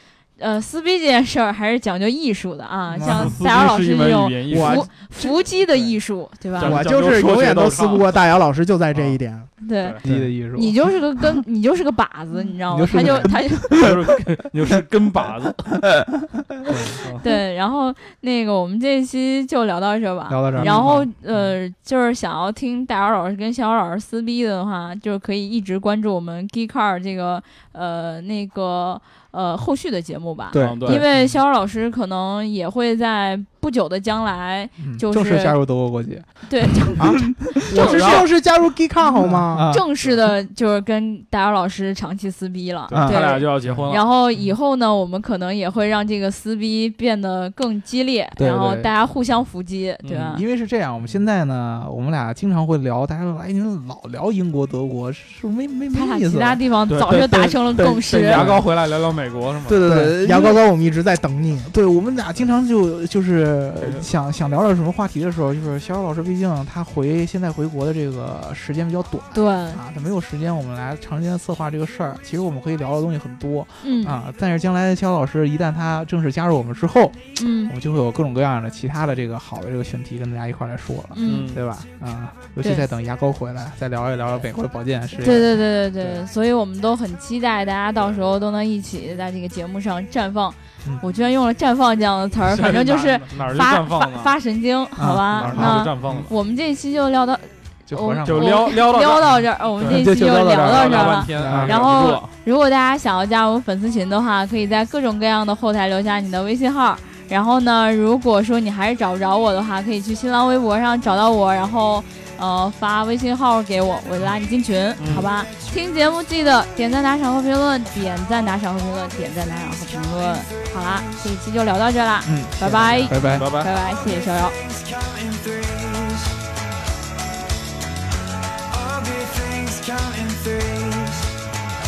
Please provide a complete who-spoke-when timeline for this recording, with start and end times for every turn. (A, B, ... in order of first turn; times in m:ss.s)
0:00.4-0:06.8 A
0:03.0-0:03.3 B
0:03.0-0:04.9 C
0:04.5-0:05.4 B
0:06.6-0:08.1 C
0:06.6-0:09.5 B
0:08.9-0:09.2 C
0:09.6-0:10.0 A
0:09.8-0:10.2 C
0:10.0-0:10.8 D
0:10.5-0:13.7 A
0:12.7-0:14.0 D
0:13.7-0:15.9 C
0:15.9-0:17.0 D
0:17.0-0:17.3 C
0:17.2-0:35.6 A
0:20.3-0:21.1 D
0:20.6-0:21.0 C
0:30.5-0:31.4 D
0:30.5-0:31.1 C
0:34.8-0:37.8 D
0:36.5-0:37.2 A
0:37.0-0:39.7 B
0:37.7-0:38.3 C
0:37.7-0:38.2 A
0:39.2-0:39.9 D
0:39.6-0:50.4 A
0:42.9-0:43.2 D
0:42.9-0:44.0 C
0:48.4-0:48.9 D
0:50.0-0:50.3 C
0:50.1-0:58.7 D
0:55.9-0:58.5 A
0:56.9-0:59.9 C
0:59.7-1:00.6 D
0:59.8-1:01.7 B
1:01.7-1:26.2 D
1:03.8-1:04.0 C
1:09.3-1:09.8 A
1:13.8-1:14.2 A
1:17.4-1:17.7 A
1:21.1-1:21.5 A
1:21.2-1:21.6 C
1:22.6-1:22.9 A
1:25.2-2:04.6 A
1:32.5-1:34.4 C
1:35.0-1:35.9 D
1:35.3-1:36.3 C
1:37.9-1:38.6 D
1:38.2-1:42.3 C
1:39.9-1:41.8 D
1:55.0-1:55.3 C
1:55.4-1:56.0 E
1:59.7-2:01.3 E
2:02.2-2:03.5 D
2:02.9-2:03.7 C
2:03.7-2:06.5 E
2:08.7-2:11.4 E